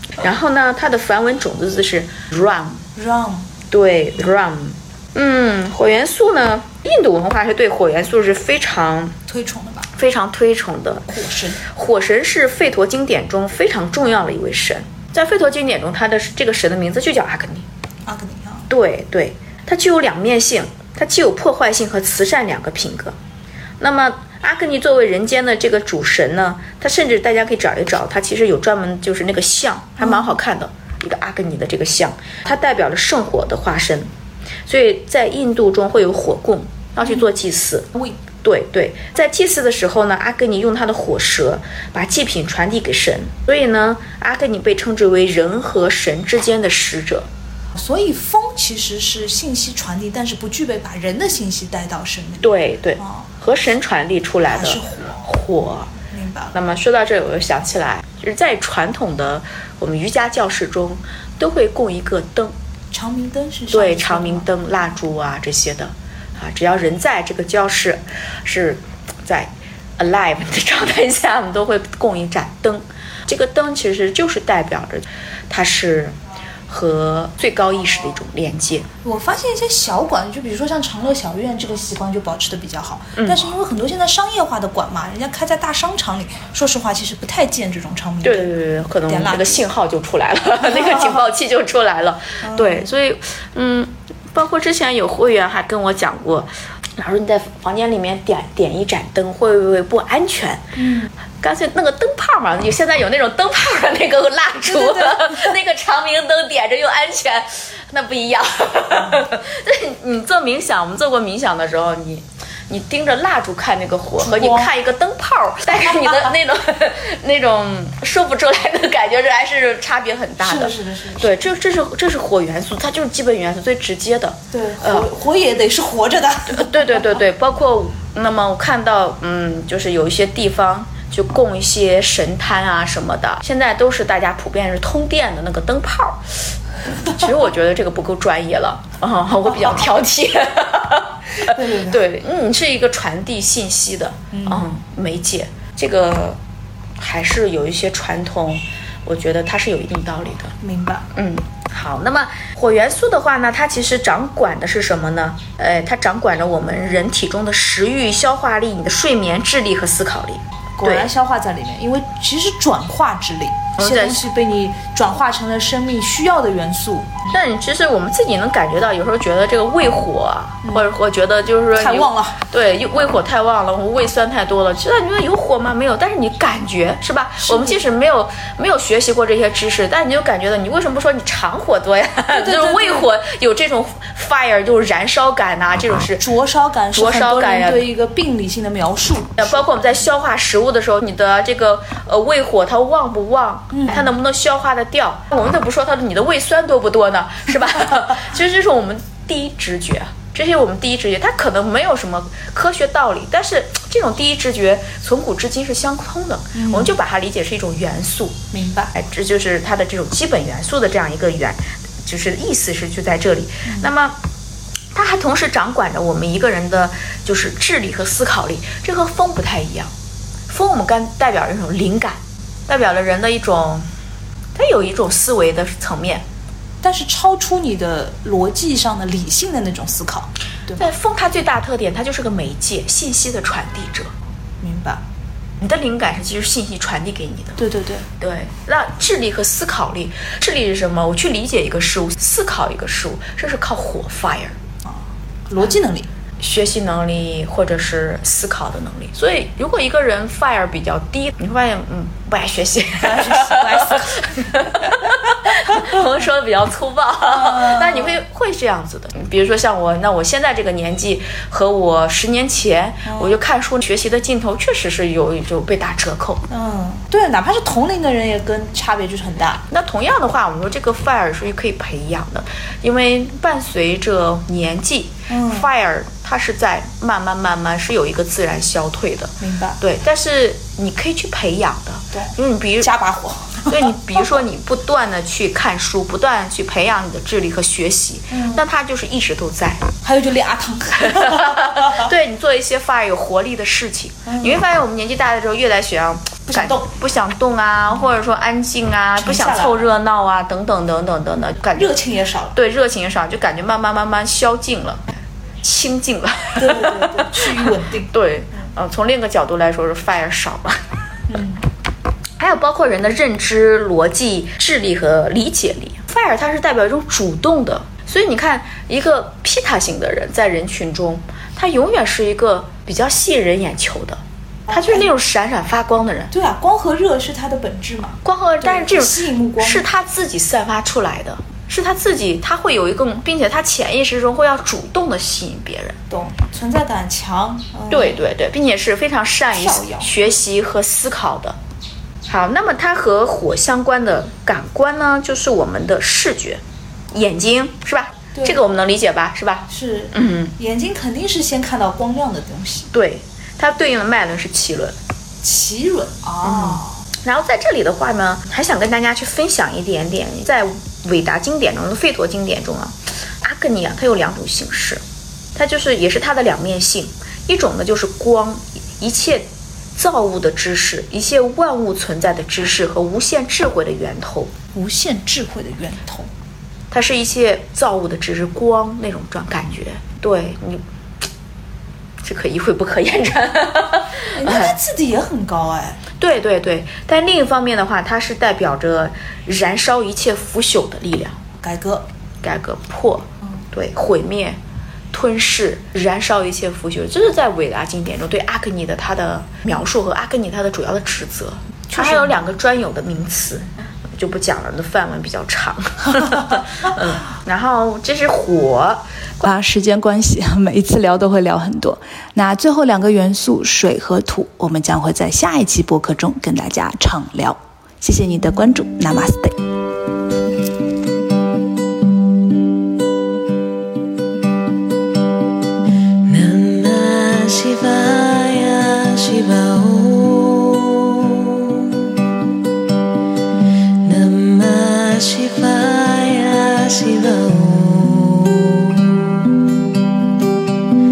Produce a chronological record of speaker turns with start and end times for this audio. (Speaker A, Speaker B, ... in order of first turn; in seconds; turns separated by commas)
Speaker A: 0.2-2.8, Speaker B: 2.9-3.5, Speaker A: 3.7-9.2, Speaker B: 9.3-9.9, Speaker A: 9.9-11.1, Speaker B: 11.1-11.6, Speaker A: 11.6-17.7, Speaker B: 18.1-18.7, Speaker A: 18.7-23.1, Speaker A: 23.8-34.1, Speaker B: 30.0-30.3, Speaker A: 34.6-47.3, Speaker B: 47.7-53.3, Speaker A: 52.4-55.9, Speaker B: 54.5-55.2, Speaker B: 56.1-56.5, Speaker A: 56.5-62.5, Speaker B: 62.9-64.5, Speaker A: 63.7-76.2, Speaker A: 76.7-78.9, Speaker B: 79.0-88.5, Speaker A: 83.2-83.5, Speaker A: 88.2-100.7, Speaker B: 89.0-89.6, Speaker B: 90.6-91.2, Speaker B: 92.4-92.9, Speaker B: 100.8-101.1, Speaker A: 101.4-125.1, Speaker B: 104.6-105.5, Speaker B: 114.2-114.7, Speaker B: 120.4-121.4, Speaker B: 124.5-127.0, Speaker A: 126.5-146.4, Speaker B: 141.4-142.0, Speaker B: 144.3-144.7, Speaker A: 147.0-150.5, Speaker B: 150.6-151.1, Speaker A: 151.1-161.1, Speaker B: 160.8-167.2, Speaker A: 163.8-164.2, Speaker A: 167.3-186.2, Speaker B: 170.6-170.9, Speaker B: 171.7-172.4, Speaker B: 177.4-177.8, Speaker B: 182.3-183.1, Speaker B: 186.2-189.6, Speaker A: 186.9-187.9, Speaker A: 189.4-208.4, Speaker B: 193.7-194.1, Speaker B: 206.5-206.9, Speaker B: 208.5-208.9, Speaker A: 208.9-214.2, Speaker B: 213.6-213.9, Speaker A: 214.9-219.9, Speaker A: 220.5-223.9, Speaker A: 224.5-226.2, Speaker B: 226.8-230.8, Speaker A: 230.8-234.1, Speaker B: 234.6-235.0, Speaker A: 235.6-237.6, Speaker B: 237.6-238.1, Speaker A: 238.2-244.6, Speaker B: 244.8-246.1, Speaker A: 246.4-266.4, Speaker B: 253.0-256.0, Speaker B: 257.2-258.2, Speaker B: 263.1-263.4, Speaker B: 266.5-269.6, Speaker A: 269.6-282.9, Speaker B: 275.3-275.7, Speaker B: 279.4-279.8, Speaker B: 282.1-284.3, Speaker A: 283.7-289.9, Speaker B: 288.3-288.6, Speaker B: 290.0-292.1, Speaker A: 291.0-302.0, Speaker B: 294.2-294.6, Speaker B: 296.5-296.9, Speaker B: 299.2-299.9, Speaker B: 301.7-302.5, Speaker A: 302.5-305.1, Speaker A: 305.6-310.8, Speaker B: 306.6-308.1, Speaker B: 311.3-311.6, Speaker A: 312.4-326.3, Speaker B: 324.7-325.1, Speaker B: 326.3-329.9, Speaker A: 328.2-336.0, Speaker B: 336.1-338.2, Speaker A: 337.9-341.6, Speaker B: 339.5-340.3, Speaker A: 342.2-350.5, Speaker B: 348.3-348.6, Speaker B: 349.7-352.9, Speaker A: 352.9-355.0, Speaker B: 355.4-357.0, Speaker A: 356.4-365.0, Speaker A: 365.5-374.5, Speaker B: 374.7-376.3, Speaker A: 376.9-380.8, Speaker A: 382.2-384.8, Speaker B: 384.2-386.0, Speaker A: 386.2-391.4, Speaker B: 391.6-392.0, Speaker A: 392.4-394.6, Speaker A: 395.1-409.5, Speaker B: 401.9-402.4, Speaker B: 409.4-419.6, Speaker C: 426.2-432.1, Speaker C: 434.0-439.5